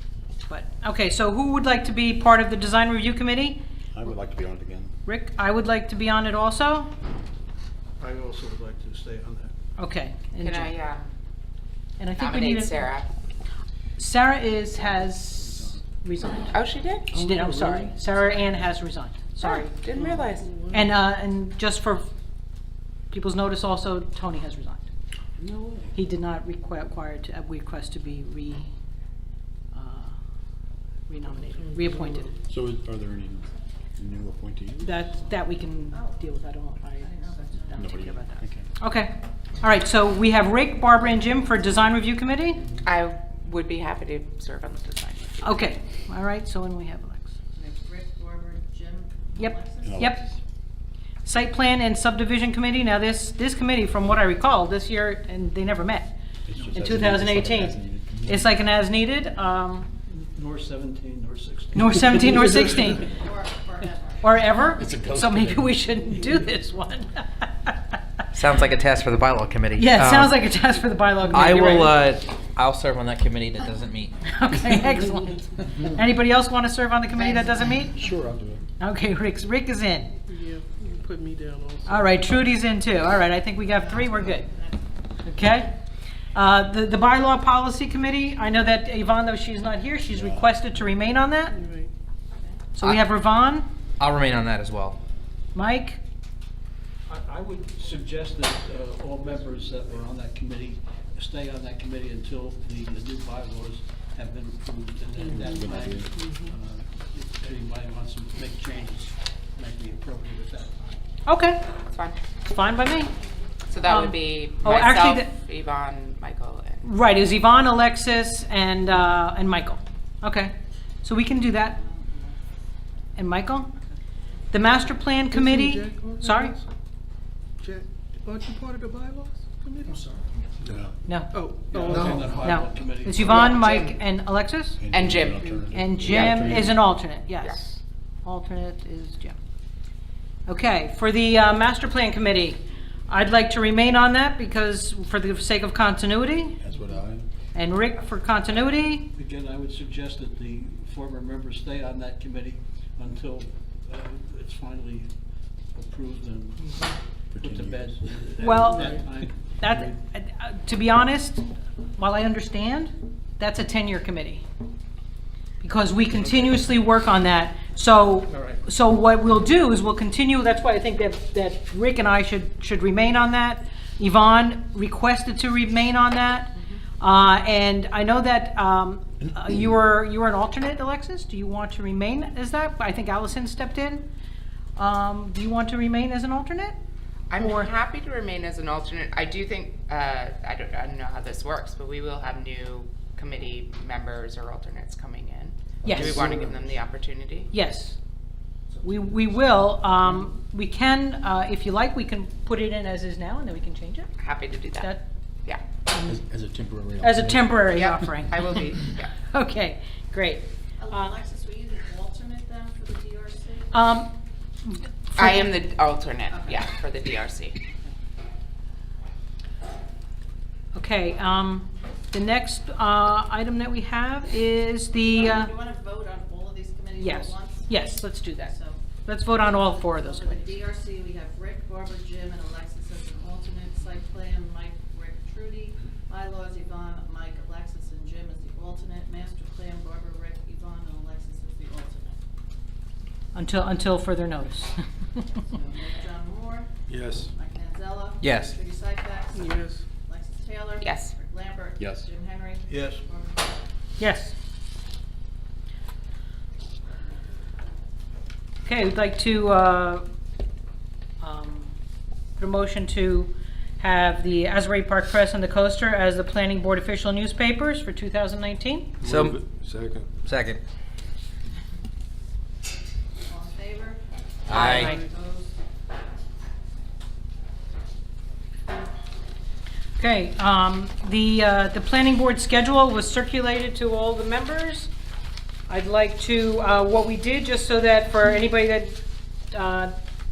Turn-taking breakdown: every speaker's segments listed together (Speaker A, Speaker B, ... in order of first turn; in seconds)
Speaker A: 0.5-3.6, 5.0-6.9, 9.8-10.8, 12.0-12.9, 14.0-16.6, 17.1-19.7, 20.7-22.1, 23.1-24.9, 25.9-28.7, 29.7-30.2, 31.1-32.3, 34.8-42.6, 45.4-47.3, 49.4-50.2, 51.2-56.1, 56.7-59.9, 61.8-63.1, 64.2-67.8, 69.8-72.0, 74.2-78.0, 78.8-80.2, 81.8-84.5, 85.2-85.7, 86.3-91.6, 92.8-93.7, 95.5-96.0, 111.2-111.6, 112.4-113.1, 113.8-115.3, 116.8-121.8, 123.2-123.7, 124.5-126.6, 131.0-131.3, 132.4-134.8, 135.7-139.4, 140.5-146.6, 147.5-149.1, 158.4-159.0, 159.6-164.4, 165.6-184.1, 184.8-186.8, 187.4-187.7, 195.8-196.3, 197.5-198.0, 198.8-204.1, 204.7-205.0, 207.0-211.2, 213.7-214.1, 214.7-215.5, 220.7-225.5, 227.0-230.5, 243.3-245.2, 254.0-254.3, 258.6-260.1, 261.2-261.7, 262.4-268.9, 274.5-275.0, 280.0-284.9, 285.7-289.0, 289.5-289.9
Speaker B: 3.9-4.9, 17.2-17.8, 32.4-34.9, 37.7-38.7, 49.8-50.2, 56.5-58.5, 64.7-65.7, 77.8-78.6, 90.1-90.5, 105.3-106.1, 130.6-131.0, 134.8-136.8, 146.6-147.2, 157.3-157.9, 196.0-196.5, 206.0-207.8, 246.9-247.3, 251.8-252.1
Speaker C: 8.0-9.5, 60.1-62.9, 97.1-110.9, 131.7-133.6, 149.1-155.1, 155.7-160.0, 166.1-166.6, 168.3-168.6, 252.7-253.0
Speaker D: 10.4-11.1, 12.1-13.1, 16.5-17.1, 19.4-20.6, 42.8-45.7, 111.9-112.2, 113.7-116.8, 133.2-134.0, 134.9-136.7, 187.3-197.5, 204.2-204.9, 207.7-209.1, 215.1-217.6, 250.8-251.1, 274.5-274.9
Speaker E: 19.9-20.9, 31.6-32.3, 80.3-82.1, 91.5-91.9, 105.3-106.5, 125.3-126.7, 127.6-130.2, 131.3-132.5, 249.3-249.8
Speaker F: 25.4-25.7, 68.3-70.3, 71.3-74.1, 94.0-95.0, 248.2-248.5, 269.0-269.4, 270.2-270.6, 274.5-274.9
Speaker G: 35.9-36.2, 37.0-37.9, 47.5-50.1, 62.9-64.3, 83.7-84.8, 121.7-123.1, 210.8-213.8, 216.3-216.6, 225.0-227.7, 228.5-228.8, 229.4-242.2, 245.5-246.7, 247.3-253.4, 273.2-275.5